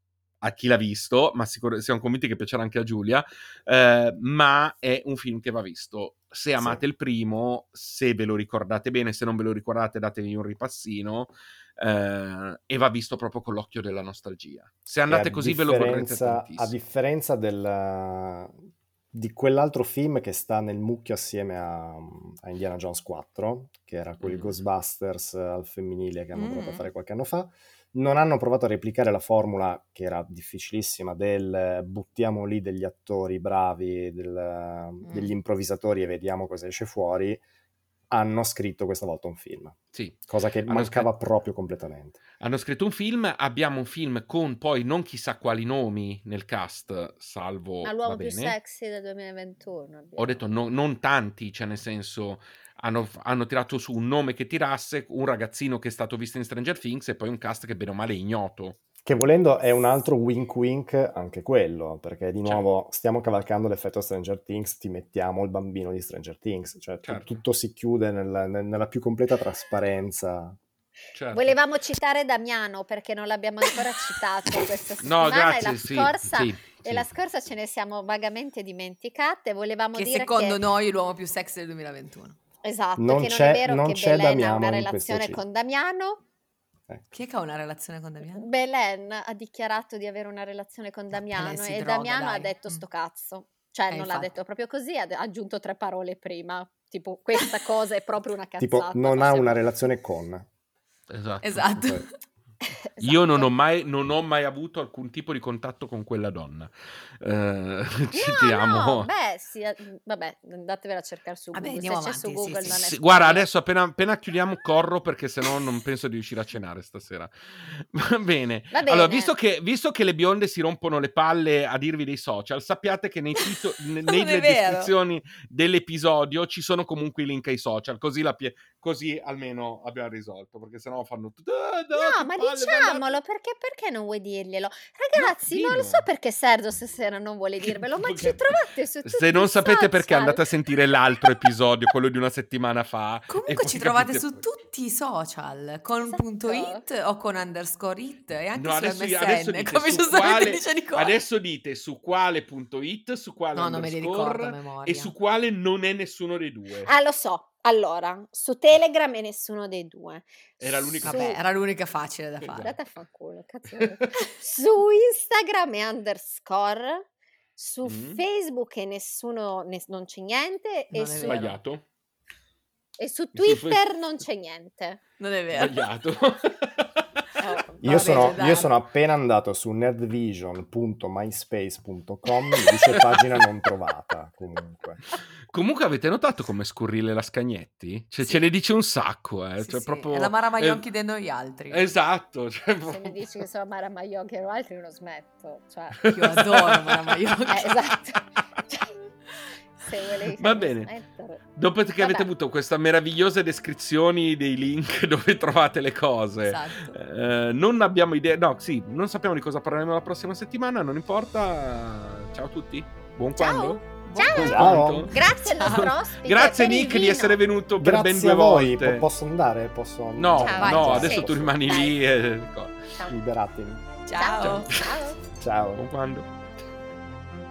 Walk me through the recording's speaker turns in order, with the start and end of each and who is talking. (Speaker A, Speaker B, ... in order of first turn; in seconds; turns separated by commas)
Speaker A: 0.4-16.7, Speaker B: 6.6-6.8, Speaker B: 15.1-18.5, Speaker B: 19.1-37.4, Speaker A: 24.2-24.6, Speaker C: 26.3-26.9, Speaker C: 35.0-35.3, Speaker B: 38.1-42.2, Speaker A: 39.9-41.1, Speaker A: 42.4-48.5, Speaker D: 47.8-50.4, Speaker A: 50.2-58.8, Speaker B: 59.0-70.6, Speaker A: 67.0-67.3, Speaker A: 71.1-71.6, Speaker D: 71.3-80.6, Speaker A: 75.0-77.1, Speaker C: 79.9-82.4, Speaker D: 82.6-86.2, Speaker B: 83.0-85.4, Speaker C: 87.1-88.5, Speaker D: 88.3-99.7, Speaker C: 91.1-92.8, Speaker C: 93.9-94.3, Speaker B: 98.6-100.5, Speaker A: 101.1-101.9, Speaker C: 101.4-102.1, Speaker D: 102.6-103.5, Speaker A: 103.0-109.1, Speaker D: 108.1-113.5, Speaker C: 111.5-112.9, Speaker A: 112.7-133.2, Speaker D: 118.7-119.3, Speaker C: 123.3-124.9, Speaker D: 131.9-140.4, Speaker A: 135.1-136.0, Speaker A: 137.7-144.4, Speaker C: 143.3-151.2, Speaker D: 146.0-146.8, Speaker A: 148.5-156.9, Speaker C: 153.5-155.1, Speaker D: 156.8-161.4, Speaker A: 160.6-161.4, Speaker C: 161.0-162.7, Speaker D: 162.4-167.0, Speaker A: 163.8-164.2, Speaker D: 167.6-171.4, Speaker A: 167.8-168.2, Speaker C: 170.9-171.6, Speaker A: 171.2-171.8, Speaker D: 173.0-175.0, Speaker A: 173.3-173.8, Speaker C: 175.2-175.8, Speaker A: 175.5-177.1, Speaker D: 177.4-178.4, Speaker C: 177.4-178.7, Speaker B: 177.8-185.0, Speaker A: 182.9-183.2, Speaker A: 185.5-190.8, Speaker C: 188.2-188.5, Speaker C: 189.6-191.8, Speaker A: 191.7-193.2, Speaker D: 192.8-196.0, Speaker A: 195.9-197.5, Speaker C: 196.1-197.8, Speaker D: 197.5-199.0, Speaker D: 199.8-201.4, Speaker A: 200.4-200.9, Speaker A: 201.5-219.1, Speaker D: 202.0-202.3, Speaker C: 206.4-207.0, Speaker D: 213.3-217.4, Speaker C: 214.0-215.9, Speaker B: 214.4-215.1, Speaker B: 217.8-221.7, Speaker A: 220.2-222.9, Speaker D: 220.3-222.0, Speaker C: 220.6-221.1, Speaker D: 222.9-223.2, Speaker B: 223.1-223.8, Speaker C: 224.1-224.7, Speaker D: 224.2-225.2, Speaker A: 224.4-224.8, Speaker B: 225.4-225.8, Speaker A: 225.7-226.3